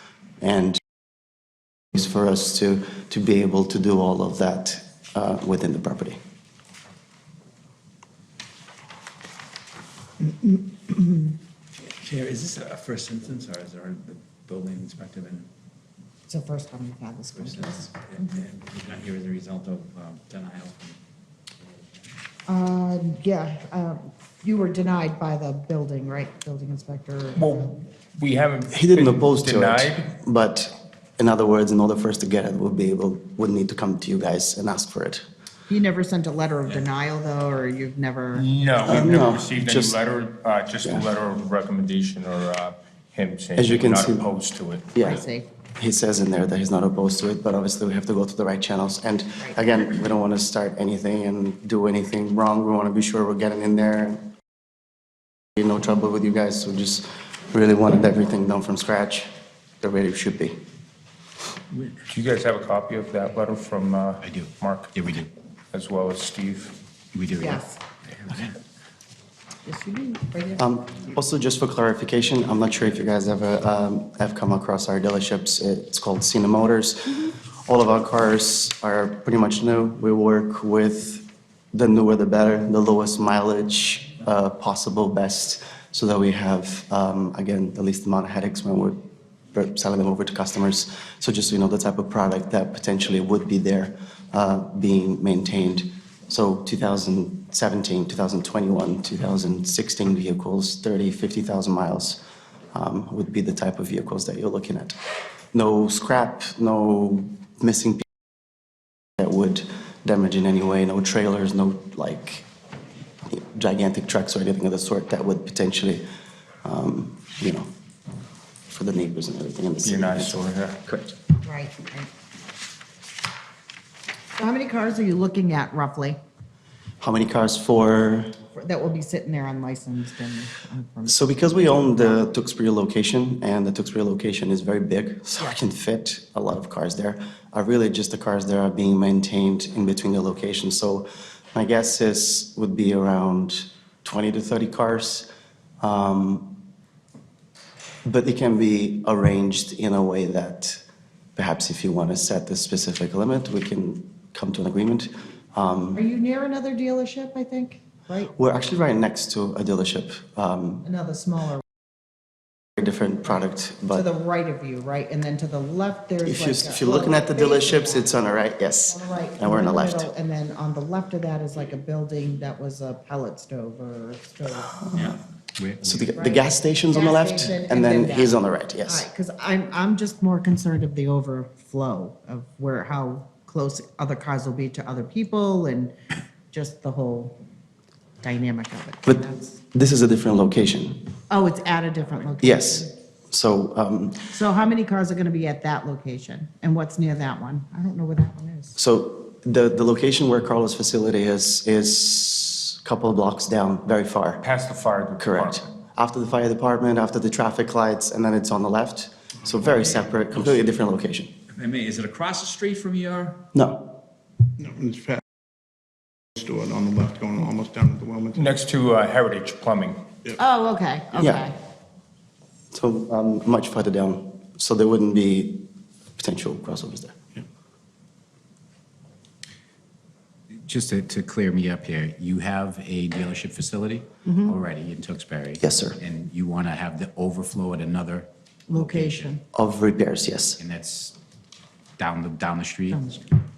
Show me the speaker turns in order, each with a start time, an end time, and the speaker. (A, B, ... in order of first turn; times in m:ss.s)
0:00.4-0:00.8 A
0:01.9-0:06.2 A
0:12.0-0:15.4 B
0:16.3-0:18.0 C
0:17.6-0:20.9 B
0:18.2-0:18.5 D
0:22.4-0:27.4 C
0:27.3-0:30.1 E
0:28.7-0:35.2 A
0:35.7-0:38.5 C
0:38.3-0:45.1 E
0:38.8-0:40.0 A
0:43.6-0:44.3 A
0:44.9-0:45.2 A
0:45.0-0:45.5 C
0:45.8-0:54.3 A
0:55.6-0:59.3 A
0:59.8-1:00.6 A
1:02.1-1:04.9 E
1:04.2-1:05.3 D
1:05.7-1:06.8 E
1:07.1-1:08.6 D
1:07.4-1:07.8 C
1:09.6-1:10.6 C
1:10.6-1:29.0 A
1:29.5-1:42.2 A
1:42.7-1:45.0 A
1:45.5-1:48.1 A
1:49.2-1:52.5 A
1:53.3-1:56.0 A
1:56.6-1:57.7 A
1:58.7-2:01.1 A
1:59.8-2:00.8 E
2:01.4-2:02.1 C
2:04.4-2:06.2 C
2:07.0-2:08.4 A
2:08.5-2:12.0 C
2:11.0-2:25.3 A
2:25.8-2:26.6 A
2:28.0-2:30.8 A
2:31.4-2:36.0 A
2:35.9-2:38.3 C
2:38.3-2:40.8 A
2:40.8-2:41.6 C
2:42.8-2:44.0 A
2:43.9-2:48.3 C
2:46.2-2:50.1 A
2:48.9-2:55.0 C
2:55.6-2:56.1 D
2:55.8-2:59.0 A
2:56.1-3:05.9 C
3:06.5-3:07.4 C
3:08.2-3:09.6 C
3:09.7-3:11.1 A
3:11.3-3:12.9 C
3:12.4-3:14.3 A
3:14.3-3:18.8 C
3:18.8-3:24.4 A
3:24.4-3:25.6 E
3:25.2-3:31.3 A
3:31.5-3:33.4 B
3:33.5-3:33.8 A
3:34.6-3:35.2 F
3:36.4-3:38.5 F
3:38.4-3:40.0 E
3:40.4-3:41.5 C
3:41.2-3:41.5 A
3:42.7-3:47.2 A
3:50.6-3:59.4 D
3:54.3-3:54.5 C
3:55.6-3:56.0 A
3:58.7-3:59.4 C
3:59.5-4:00.6 A
4:00.6-4:01.2 D
4:02.0-4:03.1 D
4:02.9-4:03.3 C